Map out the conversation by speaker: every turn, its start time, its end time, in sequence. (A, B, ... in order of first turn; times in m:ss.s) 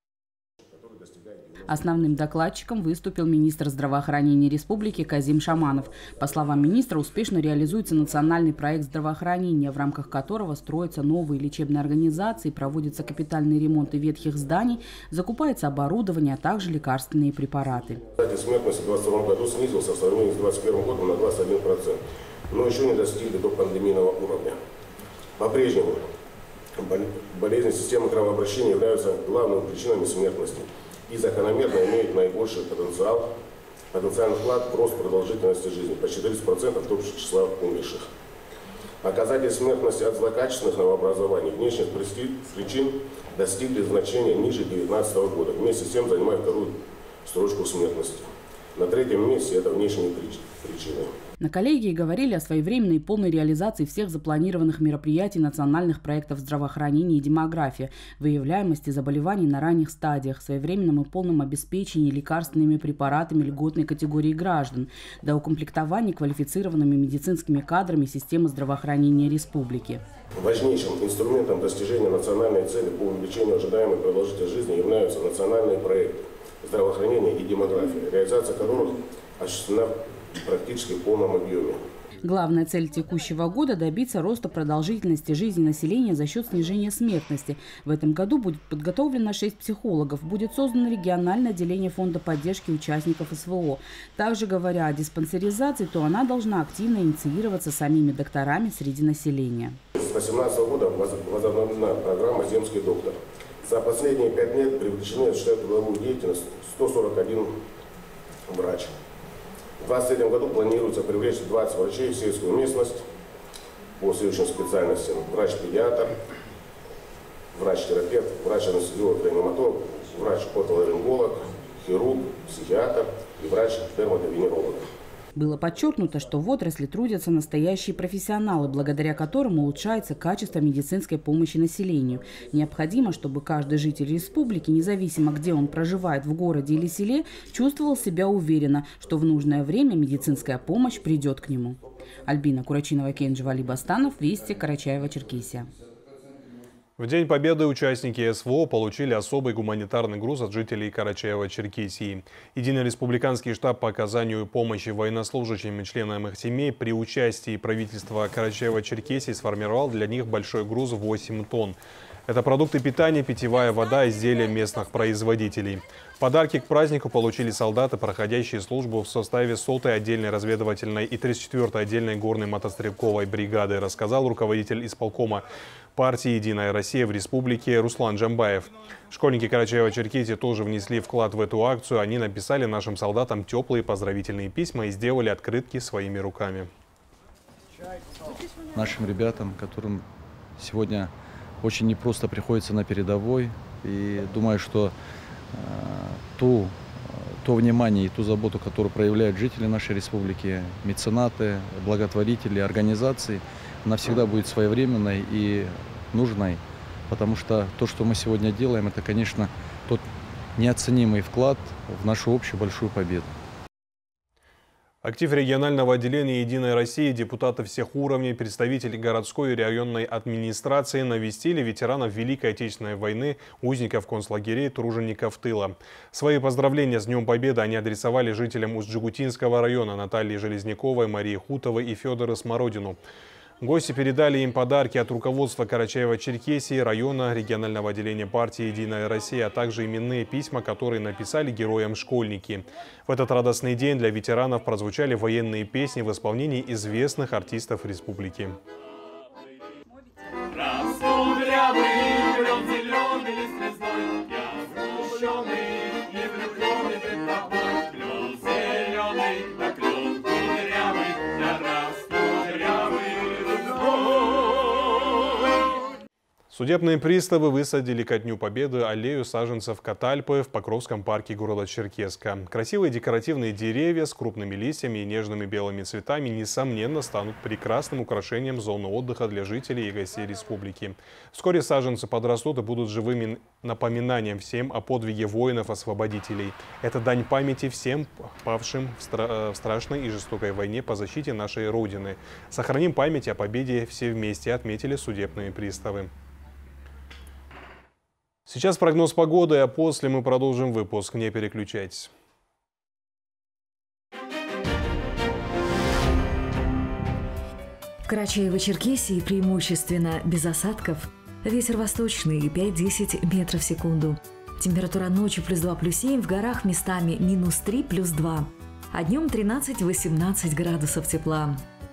0:00.8-0:01.6 A
0:01.7-0:18.0 B
0:18.2-0:24.6 A
0:25.4-0:26.0 A
0:26.8-0:33.3 A
0:33.9-0:38.1 A
0:39.0-0:51.1 A
0:51.4-1:10.0 B
1:10.4-1:21.8 A
1:22.2-1:39.8 B
1:40.0-1:47.5 A
1:48.5-1:48.9 A
1:49.8-1:53.0 A
1:54.0-1:56.2 A
1:57.5-2:04.9 A
2:05.4-2:25.7 B
2:27.0-2:41.8 C
2:42.3-3:06.7 C
3:08.7-3:10.0 D
3:10.6-3:14.9 D
3:15.5-3:30.0 D
3:30.6-3:33.3 D
3:35.0-3:53.0 C
3:53.6-4:08.6 C
4:26.5-4:56.1 C
4:58.5-5:02.1 C
5:08.1-5:21.6 E